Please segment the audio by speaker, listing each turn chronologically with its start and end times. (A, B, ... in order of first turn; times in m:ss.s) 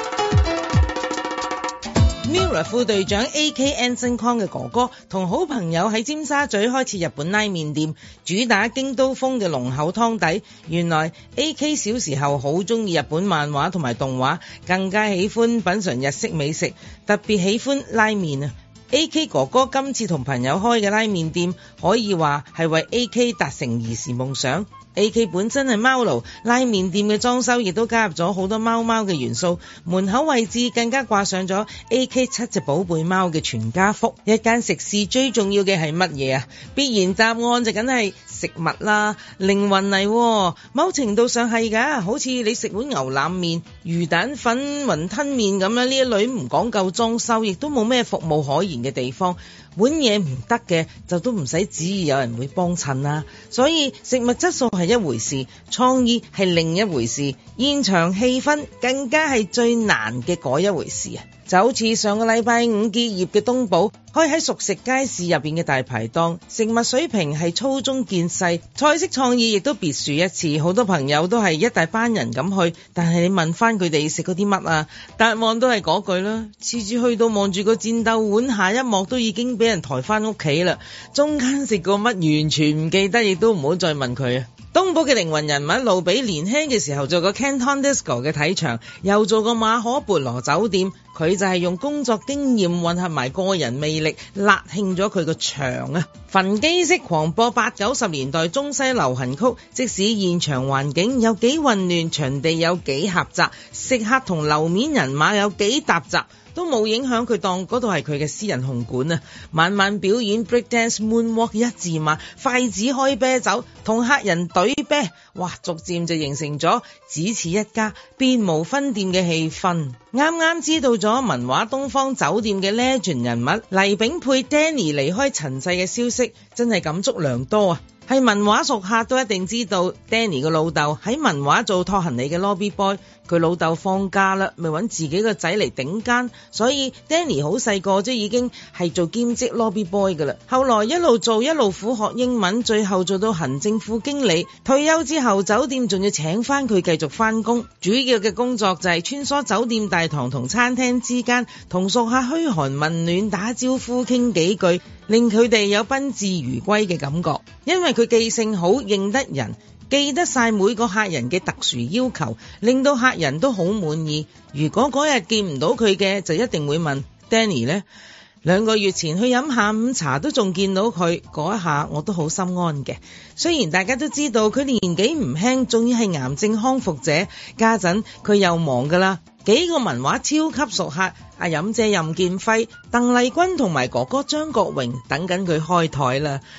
0:02.2-2:47.8 A
2:48.4-3:06.4 A